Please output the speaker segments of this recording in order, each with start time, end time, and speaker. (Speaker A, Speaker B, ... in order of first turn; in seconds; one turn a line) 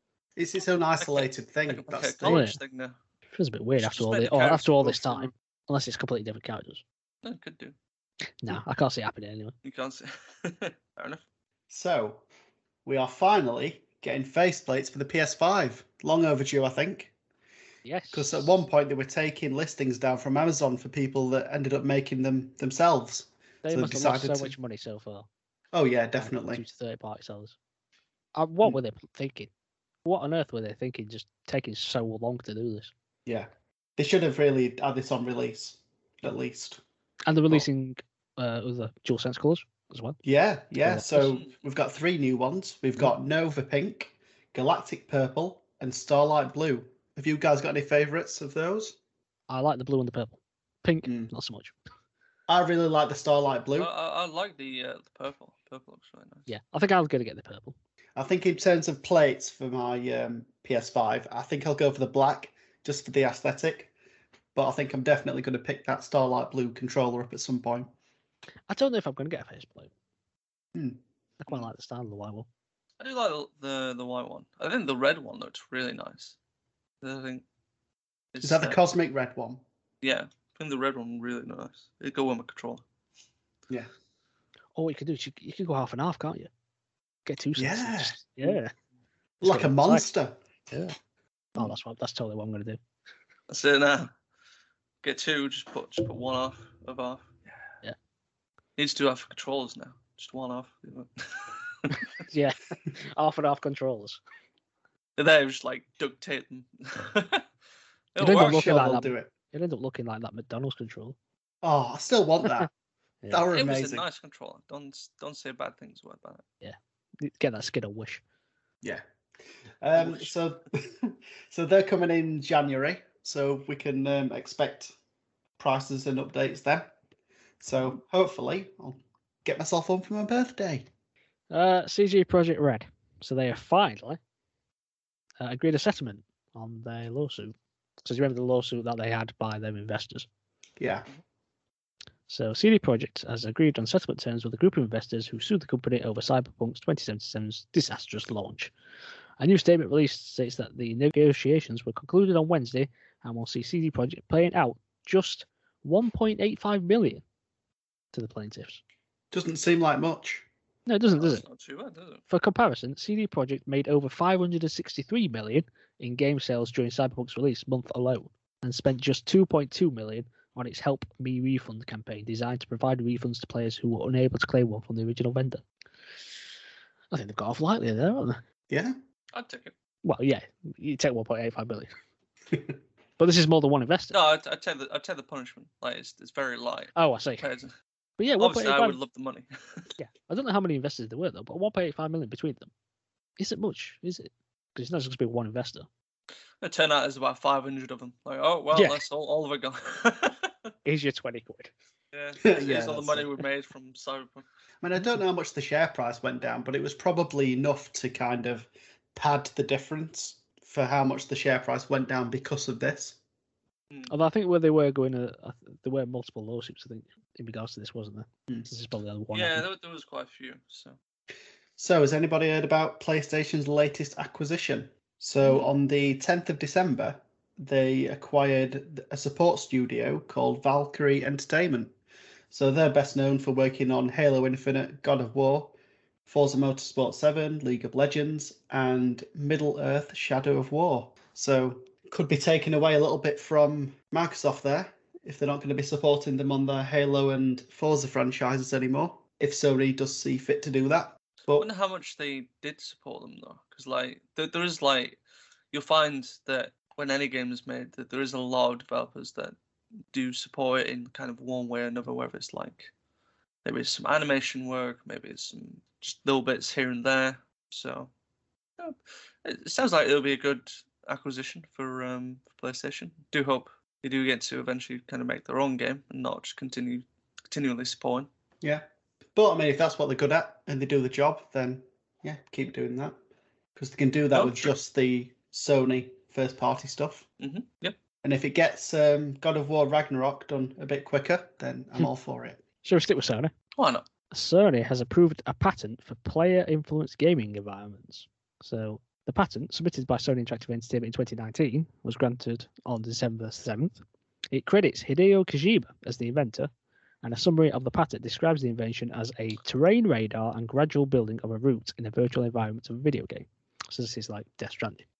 Speaker A: 0.4-2.5
Speaker B: 1.0-3.0
Speaker C: 2.2-2.6
Speaker C: 3.3-6.8
Speaker B: 3.8-5.3
Speaker B: 7.2-7.7
Speaker C: 8.4-9.6
Speaker B: 9.6-11.2
Speaker A: 11.7-12.2
Speaker A: 12.8-17.1
Speaker C: 17.9-18.6
Speaker A: 18.1-24.6
Speaker C: 23.6-25.3
Speaker A: 25.7-26.6
Speaker C: 26.2-27.6
Speaker C: 28.4-29.5
Speaker C: 30.1-32.9
Speaker A: 33.3-36.8
Speaker C: 37.3-40.2
Speaker A: 40.2-49.0
Speaker C: 40.8-41.4
Speaker B: 41.1-41.5
Speaker C: 49.5-51.7
Speaker A: 51.1-51.3
Speaker A: 52.5-53.9
Speaker B: 53.8-56.5
Speaker C: 56.5-57.7
Speaker A: 58.1-63.9
Speaker A: 64.5-67.9
Speaker C: 68.7-69.9
Speaker A: 70.7-71.0
Speaker C: 71.4-72.5
Speaker B: 73.0-76.4
Speaker B: 77.0-77.4
Speaker B: 78.3-78.8
Speaker A: 78.4-79.6
Speaker B: 80.0-82.8
Speaker C: 84.8-86.5
Speaker C: 87.3-88.7
Speaker A: 87.6-88.2
Speaker A: 89.4-90.4
Speaker C: 89.4-90.1
Speaker C: 91.6-92.8
Speaker B: 93.5-94.1
Speaker B: 95.0-97.4
Speaker B: 98.8-102.0
Speaker C: 102.3-104.2
Speaker B: 105.2-107.5
Speaker B: 108.2-108.7
Speaker C: 108.2-111.2
Speaker A: 108.2-109.3
Speaker A: 111.6-112.7
Speaker A: 113.3-114.0
Speaker B: 113.5-116.4
Speaker C: 116.6-118.2
Speaker A: 119.8-124.9
Speaker B: 120.0-120.3
Speaker A: 125.6-126.9
Speaker A: 127.6-130.9
Speaker C: 131.5-134.2
Speaker C: 135.4-140.3
Speaker A: 140.8-141.1
Speaker C: 142.3-148.7
Speaker C: 149.4-157.2
Speaker C: 158.1-158.8
Speaker A: 159.3-160.5
Speaker C: 160.9-161.4
Speaker B: 161.2-162.2
Speaker C: 162.3-175.6
Speaker C: 177.1-178.4
Speaker A: 178.7-178.9
Speaker B: 179.3-179.7
Speaker C: 180.0-181.9
Speaker C: 183.2-184.2
Speaker B: 184.1-187.7
Speaker C: 186.9-187.4
Speaker C: 188.2-189.0
Speaker B: 188.4-189.9
Speaker C: 190.0-192.7
Speaker C: 193.4-195.9
Speaker B: 196.6-200.5
Speaker C: 198.7-199.0
Speaker C: 200.8-201.7
Speaker B: 202.1-204.4
Speaker A: 202.4-203.3
Speaker A: 204.8-213.2
Speaker B: 213.9-214.2
Speaker C: 214.1-219.7
Speaker B: 219.3-221.0
Speaker A: 221.8-231.9
Speaker A: 232.5-235.7
Speaker A: 236.3-251.7
Speaker B: 251.6-255.2
Speaker B: 255.7-259.6
Speaker B: 260.1-262.9
Speaker B: 263.6-268.1
Speaker B: 268.8-278.3
Speaker A: 278.6-283.2
Speaker A: 283.8-287.3
Speaker B: 284.3-284.7
Speaker B: 287.4-288.0
Speaker A: 288.2-292.6
Speaker C: 292.8-293.5
Speaker B: 293.8-294.1
Speaker C: 294.3-304.0
Speaker C: 304.5-306.7
Speaker C: 307.2-315.1